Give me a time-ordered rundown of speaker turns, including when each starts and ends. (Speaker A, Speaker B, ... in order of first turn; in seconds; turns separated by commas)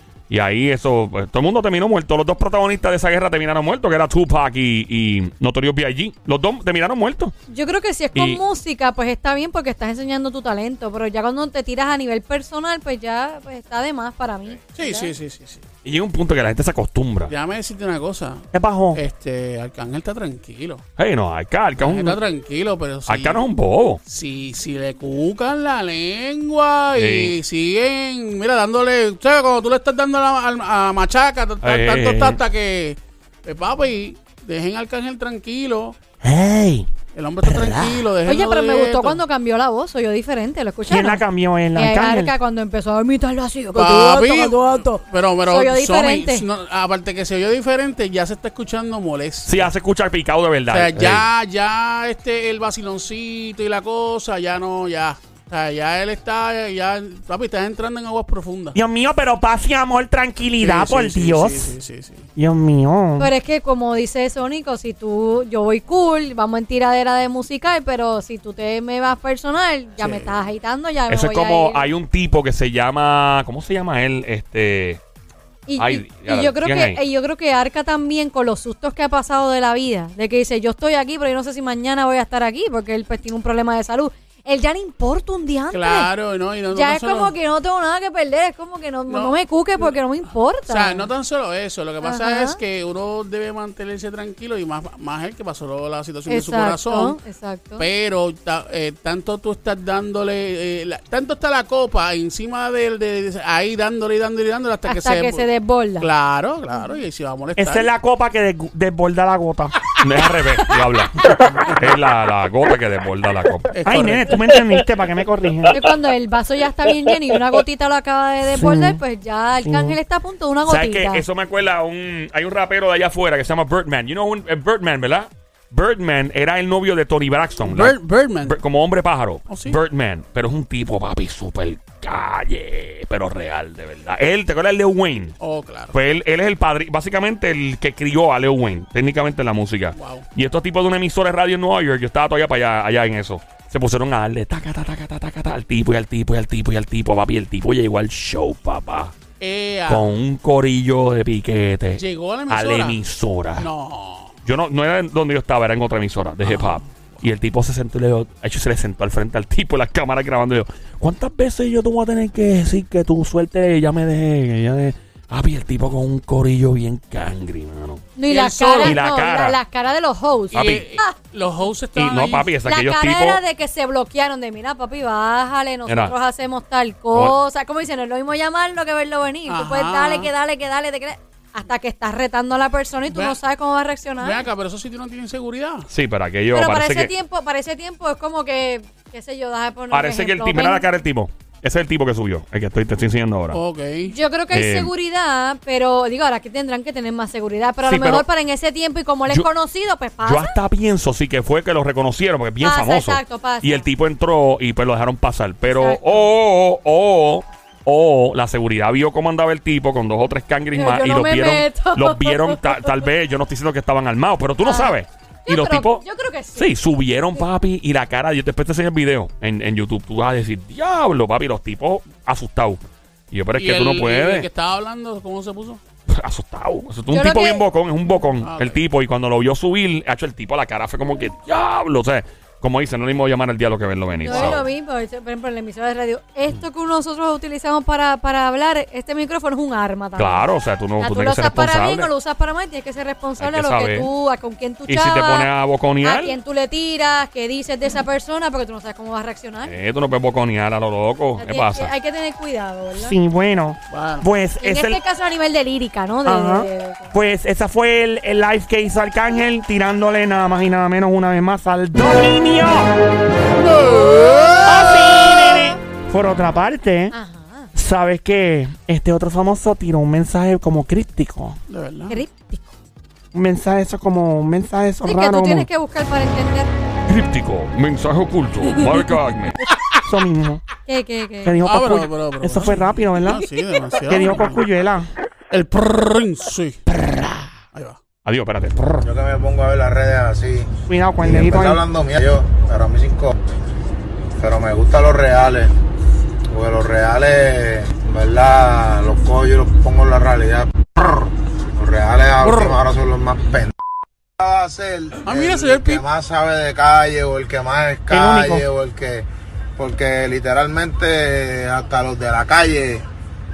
Speaker A: 0.3-7.3, Speaker B: 7.5-15.1, Speaker A: 8.1-8.4, Speaker C: 14.7-15.6, Speaker A: 15.8-17.3, Speaker C: 17.3-20.8, Speaker D: 18.5-19.0, Speaker A: 21.0-22.2, Speaker C: 21.8-23.4, Speaker A: 23.1-24.0, Speaker C: 24.1-36.0, Speaker A: 26.9-27.4, Speaker A: 31.6-32.4, Speaker D: 36.2-36.9, Speaker C: 37.1-39.2, Speaker D: 37.4-38.1, Speaker B: 38.2-46.5, Speaker D: 40.9-42.3, Speaker C: 43.7-49.7, Speaker A: 49.4-51.3, Speaker C: 50.7-58.8, Speaker D: 58.8-61.7, Speaker C: 60.6-62.3, Speaker D: 62.4-63.3, Speaker B: 63.2-71.9, Speaker C: 70.0-70.4, Speaker A: 71.1-75.0, Speaker B: 75.7-86.1, Speaker A: 75.8-77.0, Speaker C: 85.7-87.3, Speaker B: 86.7-91.1, Speaker C: 89.1-89.9, Speaker C: 90.7-97.2, Speaker B: 92.0-92.6, Speaker B: 96.3-97.9, Speaker C: 97.8-107.9, Speaker B: 104.8-106.1, Speaker B: 106.7-107.0, Speaker D: 107.6-109.8, Speaker A: 110.0-113.8, Speaker C: 113.7-114.3, Speaker D: 113.8-115.8, Speaker B: 115.7-121.2, Speaker D: 118.5-119.0, Speaker D: 119.6-120.0, Speaker A: 120.6-135.4, Speaker C: 127.6-128.6, Speaker C: 129.5-129.8, Speaker C: 135.4-135.9, Speaker A: 135.9-149.1, Speaker C: 139.9-140.2, Speaker C: 149.4-150.1, Speaker A: 149.9-153.7, Speaker C: 152.0-153.0, Speaker C: 153.6-154.3, Speaker A: 154.4-168.1, Speaker C: 156.4-157.2, Speaker B: 168.2-171.2, Speaker C: 168.3-169.0, Speaker A: 168.8-169.6, Speaker C: 170.5-172.6, Speaker A: 170.5-170.9, Speaker A: 171.9-173.4, Speaker B: 172.6-184.5, Speaker A: 175.9-176.1, Speaker A: 177.1-177.4, Speaker C: 179.5-180.3, Speaker C: 183.1-183.4, Speaker C: 184.2-185.9, Speaker A: 185.9-187.1, Speaker B: 186.5-190.9, Speaker A: 189.9-193.6, Speaker C: 193.5-194.1, Speaker B: 194.1-200.5, Speaker A: 194.5-194.9, Speaker A: 197.8-198.2, Speaker A: 200.2-216.0, Speaker B: 202.6-203.9, Speaker B: 205.7-206.3, Speaker B: 210.7-213.1, Speaker B: 214.6-216.7, Speaker A: 216.5-224.5, Speaker C: 223.5-225.8, Speaker A: 226.1-234.6, Speaker B: 227.1-227.7, Speaker C: 228.4-228.8, Speaker B: 234.2-240.4, Speaker C: 234.3-234.6, Speaker A: 240.2-242.1, Speaker B: 241.0-245.5, Speaker A: 243.4-244.1, Speaker A: 244.9-246.3, Speaker B: 246.0-249.8, Speaker A: 249.6-251.9, Speaker B: 251.4-253.2, Speaker D: 253.0-255.0, Speaker C: 253.9-254.2, Speaker B: 254.6-257.1, Speaker D: 256.2-262.9, Speaker C: 263.5-265.6, Speaker D: 264.6-267.1, Speaker B: 267.1-267.7, Speaker D: 267.8-271.6, Speaker C: 271.7-272.2, Speaker B: 272.1-272.8, Speaker D: 273.3-275.7, Speaker B: 275.0-276.7, Speaker A: 277.1-279.6, Speaker D: 280.0-280.6, Speaker B: 280.9-281.6, Speaker D: 281.4-283.5, Speaker C: 281.6-284.6, Speaker D: 284.1-285.1, Speaker C: 285.5-286.8, Speaker C: 287.7-288.0, Speaker A: 288.2-289.1, Speaker E: 289.0-290.7, Speaker D: 290.9-291.8, Speaker E: 291.2-293.4, Speaker E: 294.4-295.7, Speaker E: 296.5-303.7, Speaker C: 302.4-302.8, Speaker E: 304.4-313.0, Speaker C: 305.2-306.0, Speaker D: 308.1-308.6